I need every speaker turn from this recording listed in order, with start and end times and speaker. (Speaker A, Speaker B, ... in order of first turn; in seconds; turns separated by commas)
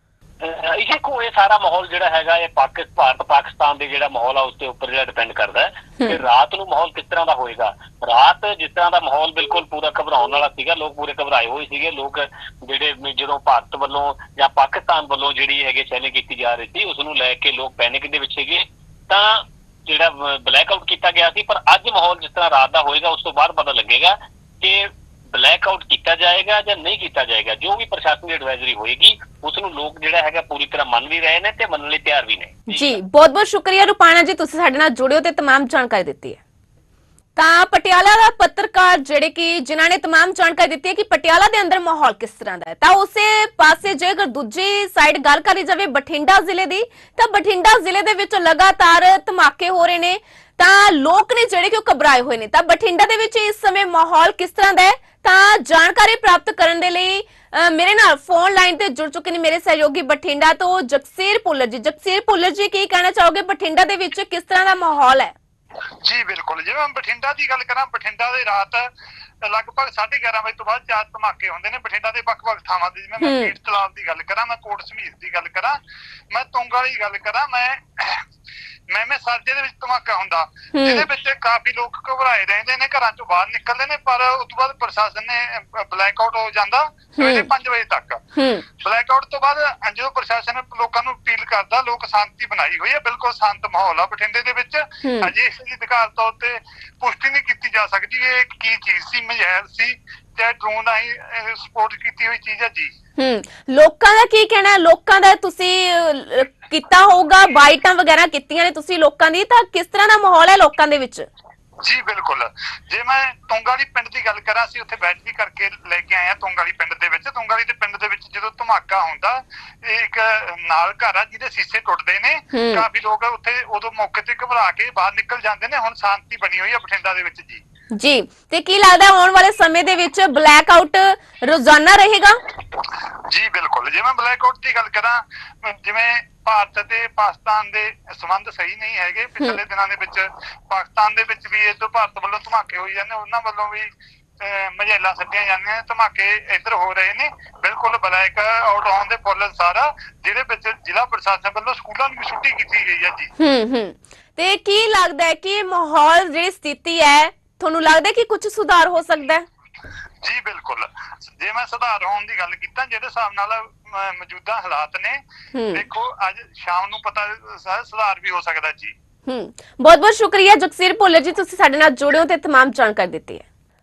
Speaker A: 0.4-33.0, Speaker B: 32.7-36.4, Speaker B: 37.4-65.3, Speaker C: 66.0-68.9, Speaker C: 69.5-75.8, Speaker B: 73.2-73.5, Speaker C: 76.3-78.2, Speaker C: 78.9-88.2, Speaker B: 80.7-81.1, Speaker B: 87.2-87.5, Speaker B: 88.4-88.6, Speaker C: 88.8-102.9, Speaker B: 95.0-95.3, Speaker B: 103.2-111.2, Speaker C: 111.8-127.6, Speaker B: 122.5-122.8, Speaker B: 128.0-132.4, Speaker C: 133.3-143.9, Speaker C: 144.4-153.3, Speaker B: 153.4-159.4, Speaker C: 160.2-165.2, Speaker B: 165.5-165.8, Speaker C: 165.7-168.9, Speaker B: 169.3-173.4